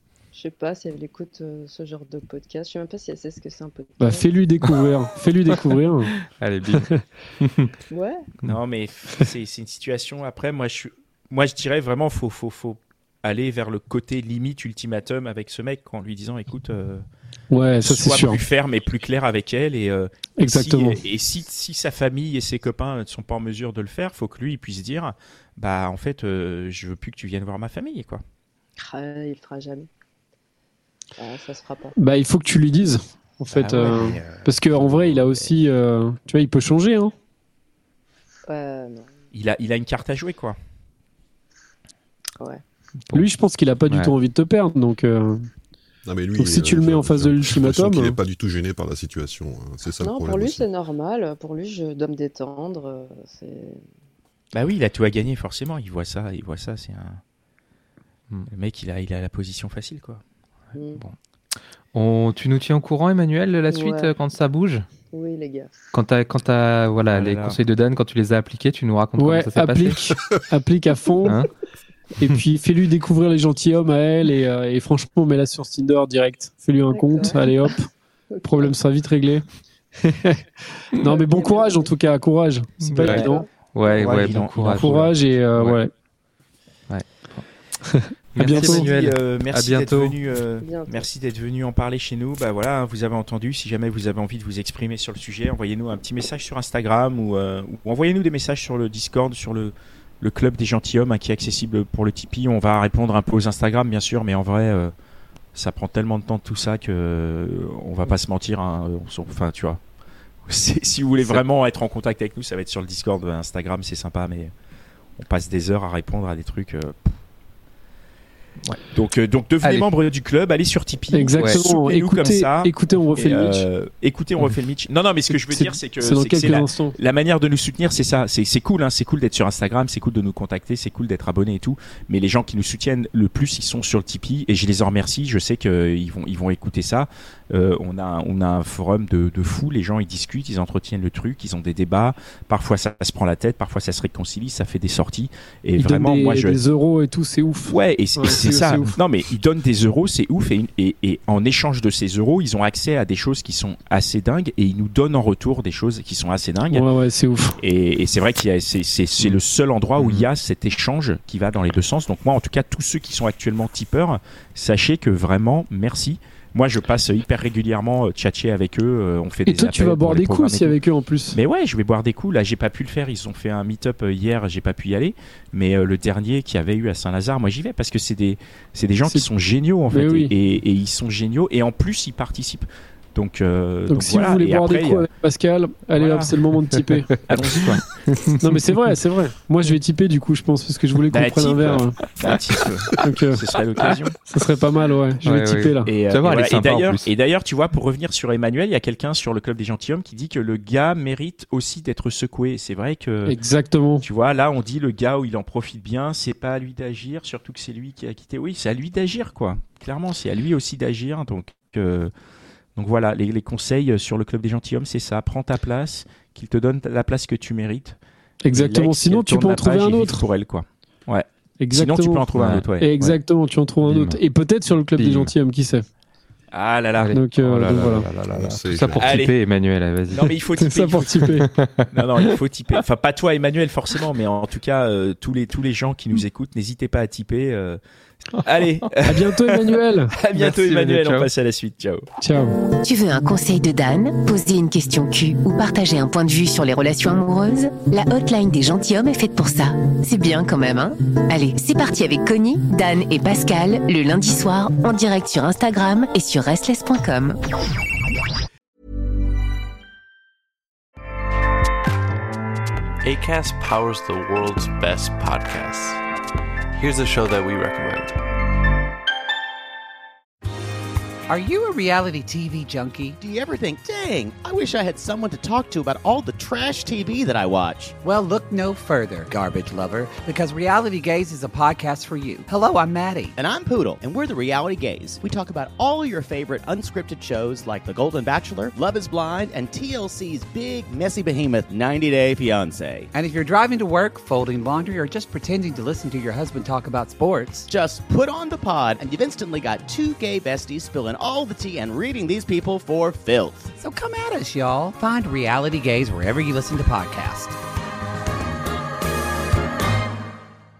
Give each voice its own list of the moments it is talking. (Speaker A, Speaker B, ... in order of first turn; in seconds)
Speaker A: 0.3-4.3, 7.9-8.3, 28.8-29.9, 31.2-31.9, 38.5-39.1, 50.0-53.8, 60.7-61.0, 63.7-64.1, 65.1-65.7, 76.9-77.7, 78.3-78.7, 81.0-81.9, 83.0-84.1, 90.6-91.1
Speaker B: 4.0-6.1, 6.7-7.0, 17.5-18.4, 20.4-21.0, 31.9-37.1, 43.1-45.5, 46.4-48.2, 69.2-71.4, 72.2-77.9, 78.4-79.4, 80.0-83.5, 84.6-85.9, 87.8-88.8, 121.1-123.7, 125.3-127.0, 145.8-148.9, 156.7-157.6, 169.5-171.4, 179.9-180.3, 183.9-187.1, 188.4-192.0, 193.0-193.4, 194.3-195.9, 203.2-204.0, 218.4-220.2, 221.6-225.8, 227.1-228.1, 230.6-231.5, 239.0-240.1, 242.2-242.6
Speaker C: 6.2-7.7, 43.9-44.1, 61.9-64.8, 65.9-70.1, 71.2-71.5, 82.8-85.8, 86.9-87.5, 88.3-90.2, 119.6-119.9, 160.0-160.3, 187.1-188.4, 195.2-197.1, 222.4-223.2, 223.8-224.2, 224.9-225.3, 227.0-230.3, 231.5-232.2, 240.3-241.3
Speaker D: 8.4-17.0, 17.8-28.2, 33.5-35.6, 39.3-40.6, 54.5-57.2, 58.5-60.2, 67.1-67.6, 83.0-83.3, 83.9-85.0, 88.4-104.9, 105.5-109.8, 110.5-114.5, 115.2-117.2, 118.9-146.6, 147.7-156.9, 157.6-170.8, 171.3-185.1, 185.9-186.4, 187.3-187.8, 191.1-194.2, 195.8-203.4, 204.0-212.1, 212.8-218.0, 218.5-222.9, 226.5-227.2, 229.0-229.3, 230.1-231.3, 231.9-242.1
Speaker E: 46.0-50.6, 228.3-229.2
Speaker F: 242.7-257.4
Speaker G: 263.0-266.0, 266.7-268.2
Speaker H: 271.3-273.2, 278.0-283.3, 293.1-297.7, 303.8-307.6
Speaker I: 273.2-277.9, 283.4-293.1, 297.7-303.7